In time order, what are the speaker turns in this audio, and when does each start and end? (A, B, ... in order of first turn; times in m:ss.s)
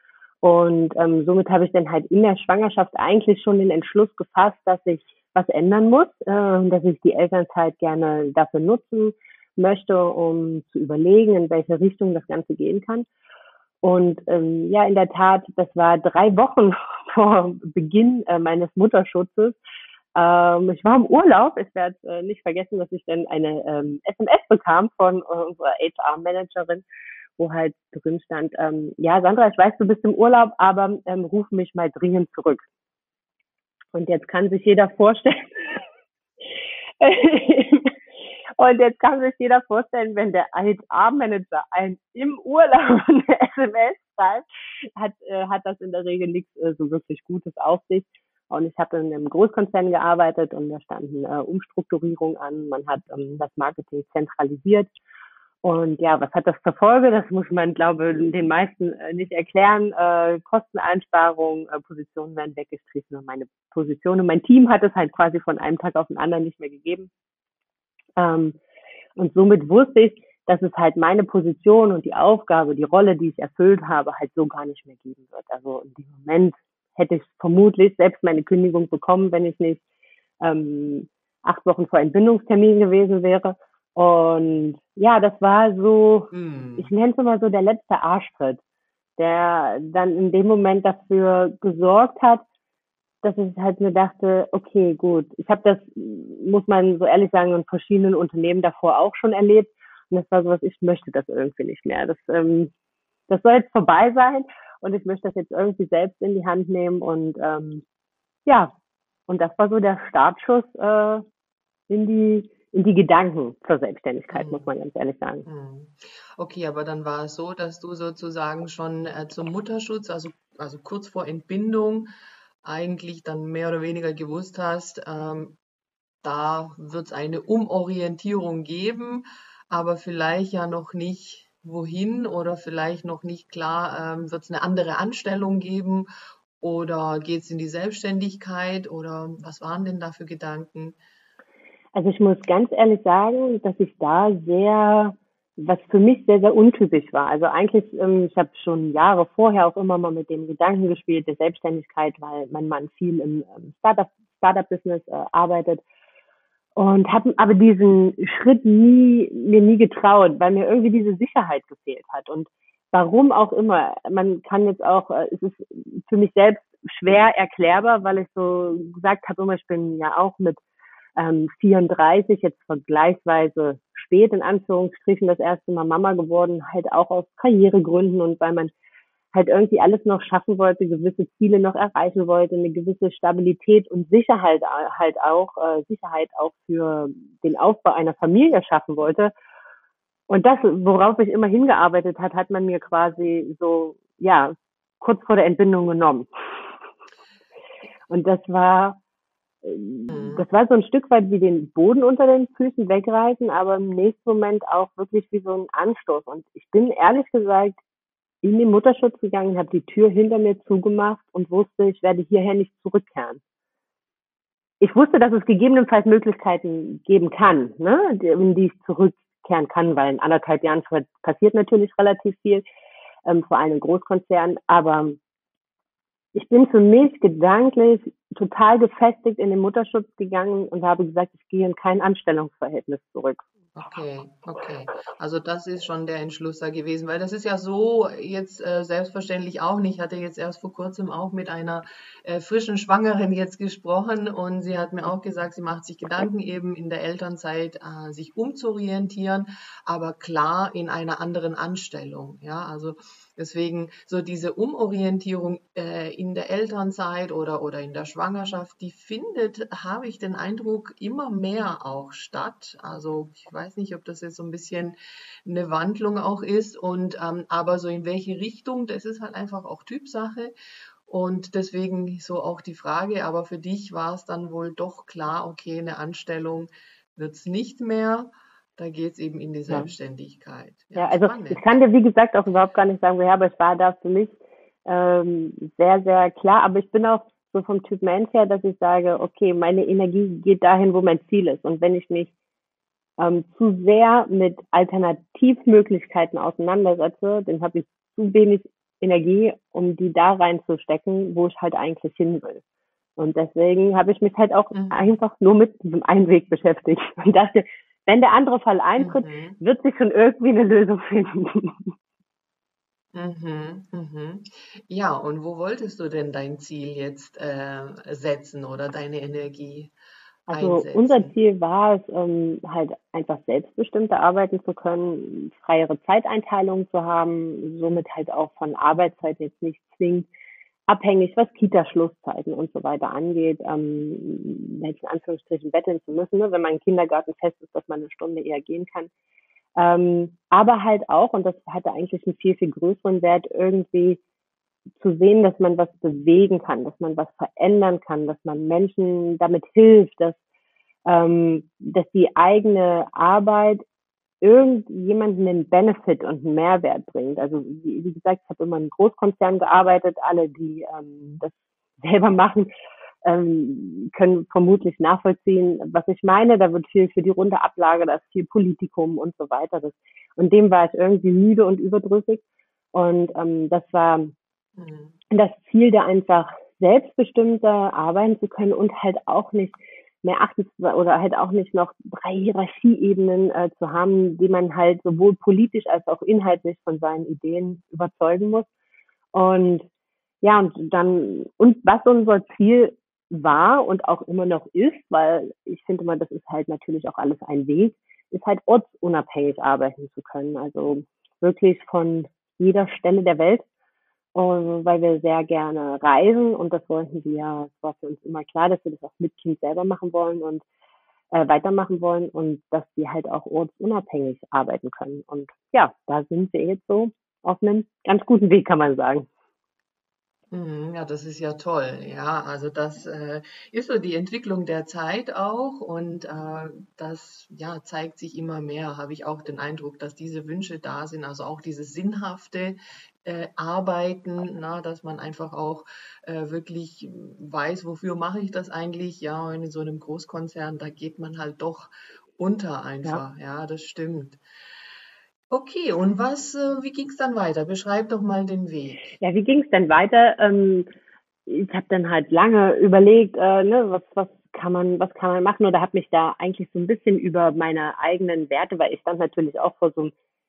0:00.4-0:13.1 A
0:13.8-0:19.6 A
0:20.1-0:26.8 A
0:27.4-0:32.6 A
0:33.9-0:35.8 A
0:37.0-0:37.9 A
0:38.6-0:44.4 A
0:45.0-0:54.9 A
0:55.6-1:07.1 A
1:08.2-1:08.6 A
1:09.2-1:19.8 A
1:20.4-1:28.6 A
1:26.3-1:26.9 B
1:29.2-1:32.4 A
1:33.2-1:42.7 A
1:43.3-1:47.8 A
1:48.4-1:48.7 A
1:49.3-1:51.2 A
1:51.9-1:55.4 A
1:54.3-1:54.6 B
1:55.4-2:02.1 B
2:02.6-2:05.6 B
2:06.2-2:16.1 B
2:16.6-2:21.0 B
2:21.9-2:35.8 A
2:36.8-2:50.6 A
2:51.2-2:58.7 A
2:59.3-3:09.3 A
3:10.3-3:16.3 A
3:18.1-3:19.0 A
3:19.6-3:27.8 A
3:20.1-3:20.4 B
3:28.4-3:33.4 A
3:34.8-3:42.6 A
3:43.2-3:45.2 A
3:46.3-3:53.4 A
3:53.7-4:30.5 B
4:31.1-4:41.7 B
4:41.0-4:52.3 A
4:53.2-5:02.6 A
5:03.2-5:11.9 A
5:04.7-5:05.2 B
5:09.0-5:09.6 B
5:13.1-5:19.9 B
5:20.5-5:30.3 A
5:20.5-5:21.3 B
5:30.9-5:39.1 A
5:39.8-5:44.2 A
5:45.0-5:50.4 A
5:51.0-5:53.8 A
5:54.4-6:02.7 A
6:03.2-6:14.3 A
6:14.8-6:15.1 B
6:15.3-6:28.7 A
6:29.3-6:29.9 A
6:30.4-6:43.6 A
6:44.3-6:50.6 A
6:51.3-6:59.3 A
7:00.5-7:24.4 B
7:25.5-7:29.1 B
7:29.2-7:30.9 A
7:31.5-7:40.1 A